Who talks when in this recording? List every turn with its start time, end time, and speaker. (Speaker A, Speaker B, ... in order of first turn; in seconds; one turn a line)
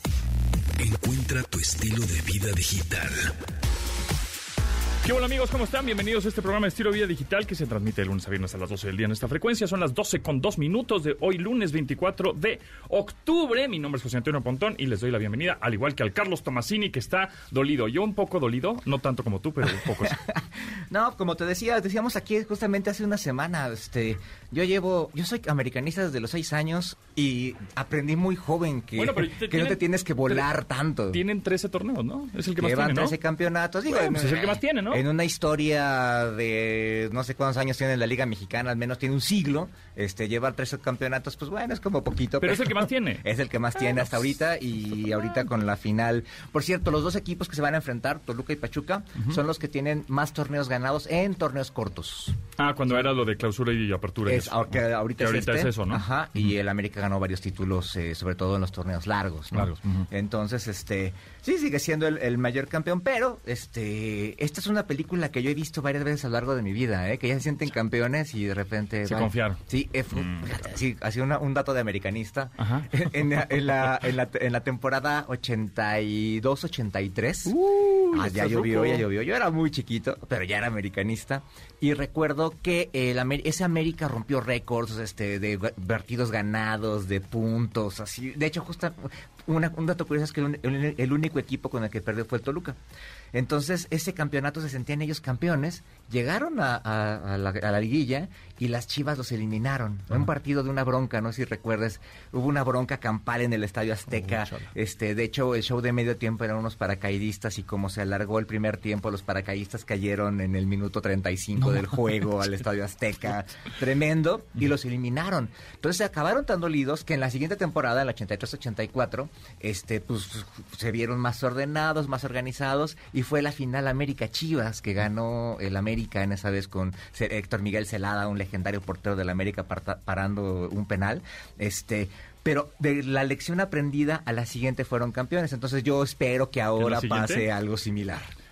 Speaker A: 0.8-3.3
Speaker B: 5.0-20.2
Speaker C: 19.8-31.2
Speaker B: 29.0-30.5
Speaker B: 31.1-33.2
Speaker C: 32.6-52.4
Speaker B: 33.9-35.0
Speaker B: 42.4-43.2
Speaker B: 52.6-56.0
Speaker C: 54.2-77.6
Speaker B: 59.5-59.8
Speaker B: 69.0-69.6
Speaker B: 70.1-70.5
Speaker B: 72.6-73.0
Speaker B: 77.5-79.0
Speaker C: 78.1-92.8
Speaker C: 93.3-138.3
Speaker B: 104.1-104.7
Speaker B: 111.6-112.3
Speaker B: 136.8-137.5